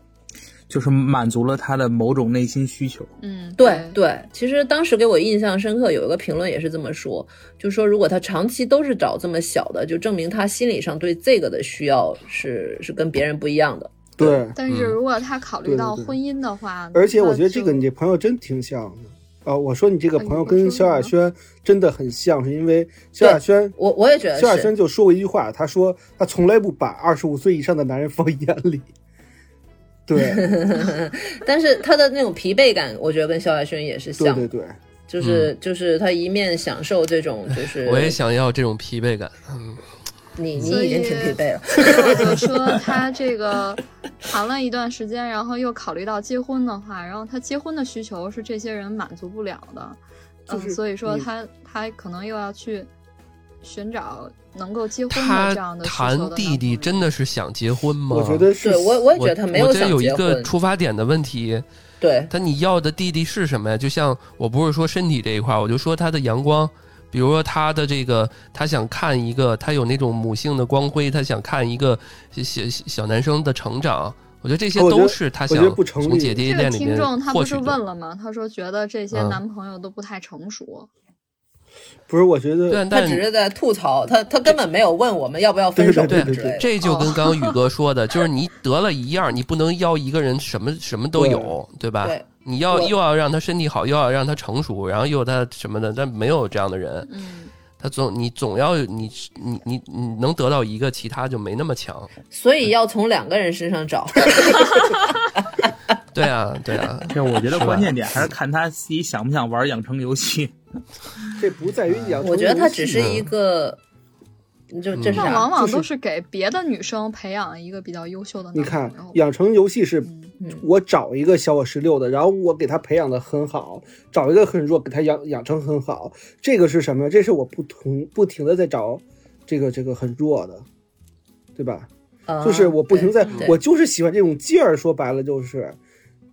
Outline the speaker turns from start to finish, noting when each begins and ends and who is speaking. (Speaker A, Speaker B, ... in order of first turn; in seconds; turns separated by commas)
Speaker A: 0.7-3.1, Speaker B: 3.2-4.0, Speaker C: 3.6-14.4, Speaker D: 14.2-14.6, Speaker B: 14.5-17.8, Speaker E: 14.7-14.9, Speaker D: 15.6-16.2, Speaker D: 16.9-23.8, Speaker B: 20.2-21.1, Speaker C: 23.2-24.7, Speaker D: 24.4-28.9, Speaker D: 30.1-30.5, Speaker C: 30.2-34.5, Speaker D: 34.2-34.8, Speaker C: 35.1-38.2, Speaker E: 35.2-35.5, Speaker E: 37.8-39.8, Speaker C: 40.4-42.4, Speaker B: 40.6-52.9, Speaker D: 50.5-51.3, Speaker B: 53.6-57.1, Speaker E: 55.1-58.5, Speaker D: 58.1-59.0, Speaker C: 58.6-60.5, Speaker E: 59.1-61.6, Speaker C: 62.0-62.3, Speaker E: 62.3-77.8, Speaker D: 74.7-76.5, Speaker B: 76.4-80.9, Speaker E: 79.1-79.4, Speaker D: 82.1-82.8, Speaker E: 82.7-83.2, Speaker C: 82.9-86.7, Speaker D: 85.8-86.6, Speaker E: 86.1-97.1, Speaker B: 86.8-87.5, Speaker D: 91.1-91.6, Speaker C: 92.0-92.9, Speaker B: 97.0-97.5, Speaker E: 97.8-102.1, Speaker C: 102.3-105.5, Speaker E: 106.1-108.3, Speaker A: 107.1-110.5, Speaker D: 111.4-113.2, Speaker C: 112.2-113.8, Speaker E: 112.9-113.3, Speaker C: 114.7-115.6, Speaker E: 114.9-115.3, Speaker B: 115.1-119.2, Speaker D: 115.6-115.8, Speaker D: 118.5-130.6, Speaker B: 120.0-120.3, Speaker D: 131.6-131.9, Speaker C: 132.3-133.6, Speaker D: 132.4-135.8